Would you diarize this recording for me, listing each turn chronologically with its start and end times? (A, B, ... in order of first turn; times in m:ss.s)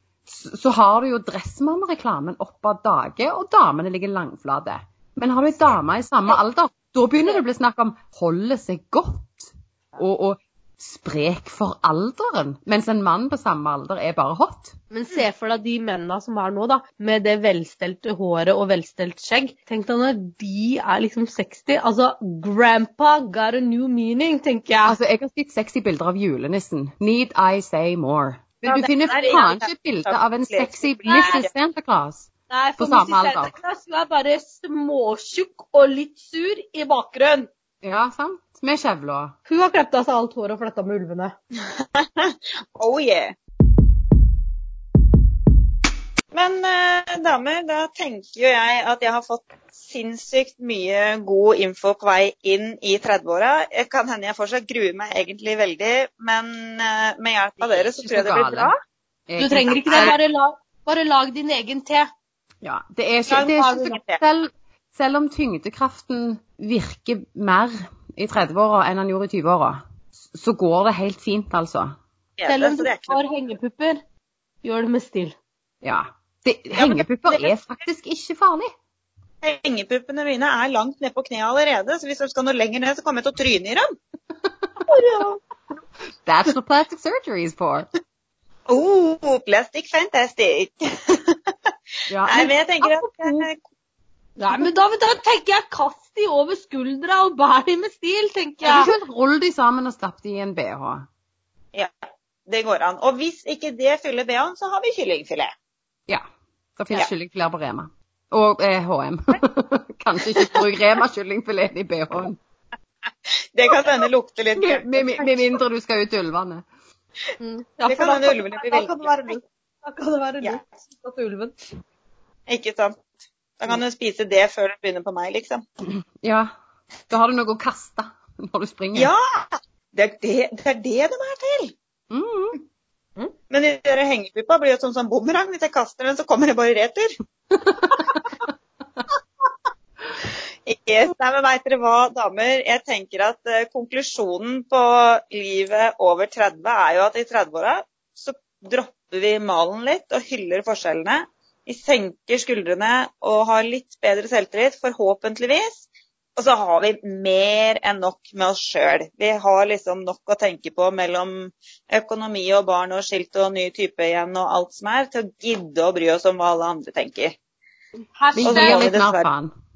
0:00.3-0:14.8 A
0:14.9-0:25.0 B
0:24.8-0:33.5 A
0:28.6-0:31.4 C
0:31.1-0:31.4 B
0:32.5-0:37.5 B
0:37.8-0:39.4 A
0:39.5-0:41.4 B
0:41.6-0:43.4 C
0:46.3-0:58.8 C
0:57.8-0:58.7 A
0:59.3-1:00.2 A
0:59.4-1:02.1 B
0:59.9-1:00.2 C
1:02.6-1:12.0 A
1:03.3-1:04.2 C
1:03.6-1:04.0 B
1:12.4-1:13.2 C
1:12.5-1:14.0 B
1:14.6-1:15.4 B
1:15.8-1:18.7 A
1:16.8-1:17.5 C
1:19.4-1:23.8 C
1:24.9-1:25.4 B
1:26.2-1:27.9 A
1:28.7-1:31.5 C
1:32.1-1:32.5 A
1:32.3-1:33.6 C
1:34.4-1:38.9 B
1:38.6-1:41.1 A
1:42.5-1:45.5 C
1:46.8-1:52.4 A
1:53.6-1:55.5 C
1:54.6-1:56.6 A
1:57.4-2:01.5 B
1:57.9-1:59.4 C
2:02.5-2:03.1 C
2:03.6-2:05.6 C
2:05.9-2:06.5 A
2:07.1-2:09.1 A
2:09.0-2:11.7 C
2:12.1-2:12.6 A
2:13.5-2:17.2 C
2:17.6-2:18.0 A
2:20.7-2:47.4 C
2:48.2-2:48.9 B
2:48.4-2:49.5 A
2:48.4-2:49.3 C